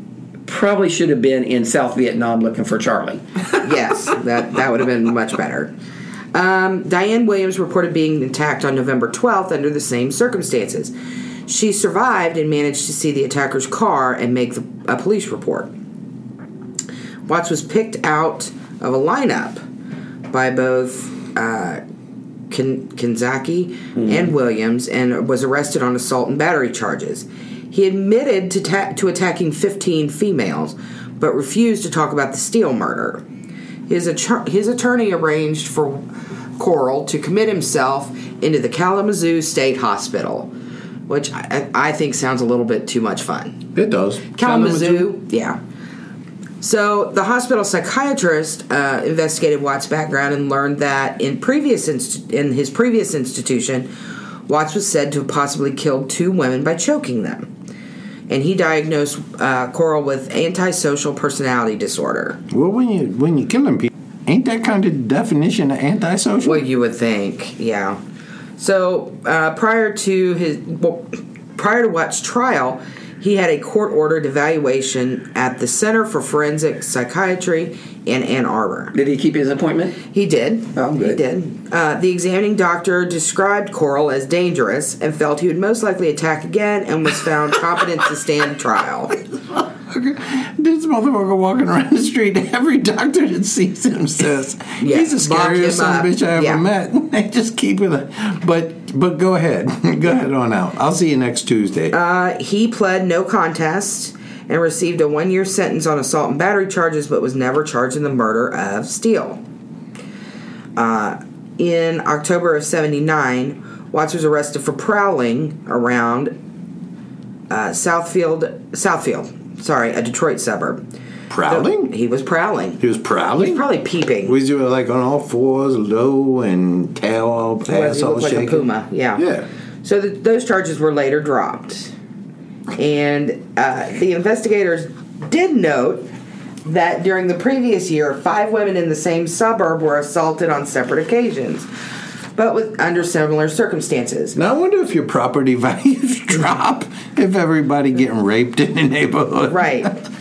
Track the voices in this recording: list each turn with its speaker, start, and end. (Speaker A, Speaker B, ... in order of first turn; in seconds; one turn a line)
Speaker A: 0.5-3.6
Speaker B: 3.6-5.7
Speaker B: 6.3-10.9
Speaker B: 11.5-15.7
Speaker B: 17.2-19.6
Speaker B: 20.3-21.8
Speaker B: 22.5-33.2
Speaker A: 24.0-24.2
Speaker B: 33.9-36.0
Speaker B: 36.6-40.5
Speaker B: 41.1-43.6
Speaker C: 43.7-45.1
Speaker B: 44.4-45.6
Speaker B: 46.6-53.9
Speaker B: 54.5-57.5
Speaker B: 58.3-62.4
Speaker C: 62.5-66.6
Speaker B: 66.4-68.0
Speaker B: 68.6-78.9
Speaker A: 78.9-80.0
Speaker B: 80.1-89.2
Speaker A: 80.7-81.2
Speaker C: 89.5-102.0
Speaker B: 94.8-96.6
Speaker B: 101.9-109.4
Speaker B: 110.8-116.3
Speaker B: 117.5-120.8
Speaker C: 121.3-121.9
Speaker B: 121.5-122.8
Speaker C: 122.8-123.6
Speaker B: 123.3-124.3
Speaker C: 124.2-129.5
Speaker B: 127.7-129.2
Speaker B: 129.8-131.9
Speaker B: 132.7-136.1
Speaker B: 136.6-141.7
Speaker B: 142.3-144.4
Speaker C: 144.3-149.9
Speaker B: 149.5-149.9